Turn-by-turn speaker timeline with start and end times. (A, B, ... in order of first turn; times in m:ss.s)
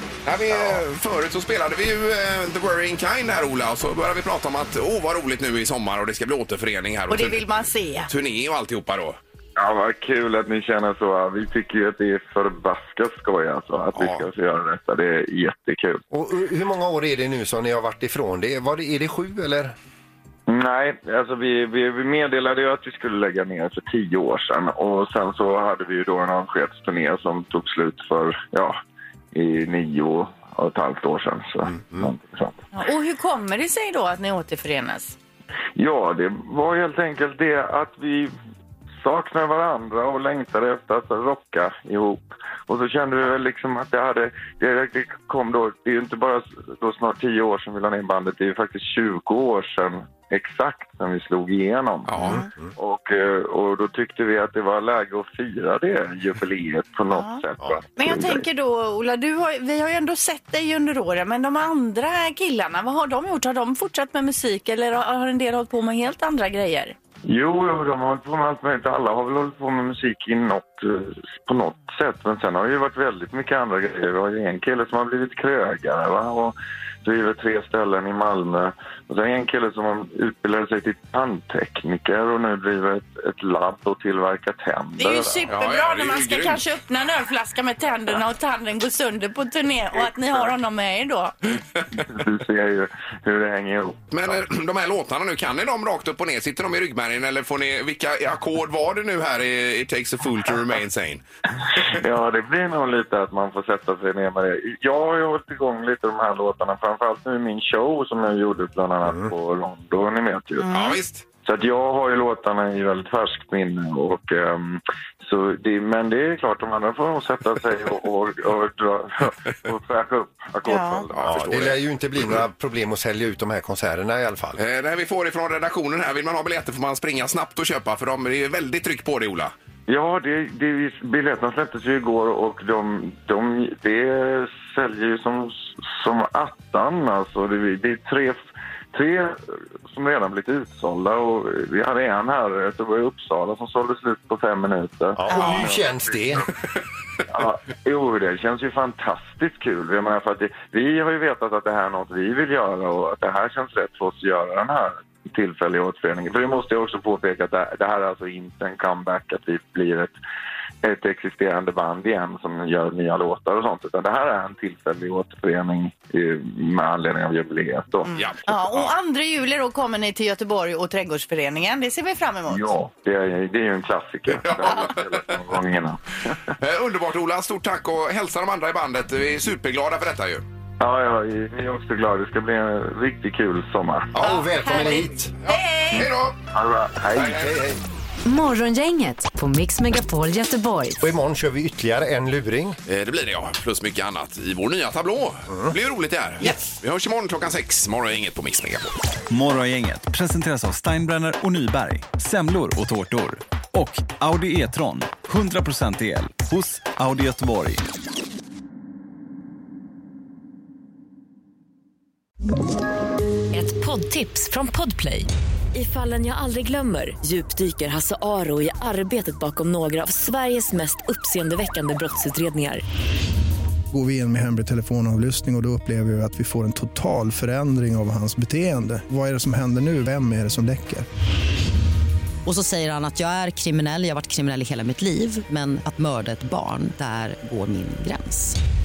0:00.2-0:07.4 A
0:07.1-0:08.1 B
0:08.1-0:09.2 A
0:09.6-0:16.0 C
0:14.0-0:14.2 A
0:16.1-0:19.8 D
0:20.5-0:28.8 C
0:29.3-0:32.6 C
0:32.7-0:35.2 B
0:35.8-0:38.4 C
0:39.0-0:58.5 C
0:52.1-0:52.4 A
0:52.2-0:52.5 B
0:57.1-0:57.4 B
0:58.0-1:07.0 B
1:07.3-1:25.5 C
1:25.0-1:31.4 B
1:25.5-1:26.6 A
1:31.9-1:34.4 C
1:34.1-1:41.2 A
1:41.9-1:50.7 C
1:49.1-1:49.3 D
1:50.6-1:51.0 B
1:50.7-1:51.2 A
1:51.4-2:01.3 C
2:00.7-2:01.1 B
2:01.1-2:01.8 A
2:01.2-2:04.6 D
2:04.6-2:09.5 A
2:09.9-2:26.4 C
2:25.2-2:26.5 D
2:25.3-2:25.7 B
2:27.3-2:40.2 C
2:40.8-2:48.1 C
2:48.1-2:52.7 B
2:48.1-2:48.9 A
2:52.5-2:56.4 C
2:54.4-2:55.4 A
2:56.6-3:00.4 A
3:00.8-3:04.2 C
3:04.1-3:05.3 D
3:04.6-3:06.0 B
3:05.4-3:06.4 A
3:05.9-3:07.5 C
3:07.1-3:07.5 A
3:07.3-3:07.8 D
3:08.2-3:11.0 E
3:11.0-3:12.8 D
3:12.9-3:18.9 A
3:19.3-3:27.9 F
3:33.8-3:35.0 G
3:35.8-3:42.8 G
3:36.7-3:39.3 H
3:40.1-3:41.4 H
3:43.9-3:51.1 I
3:52.5-3:58.6 H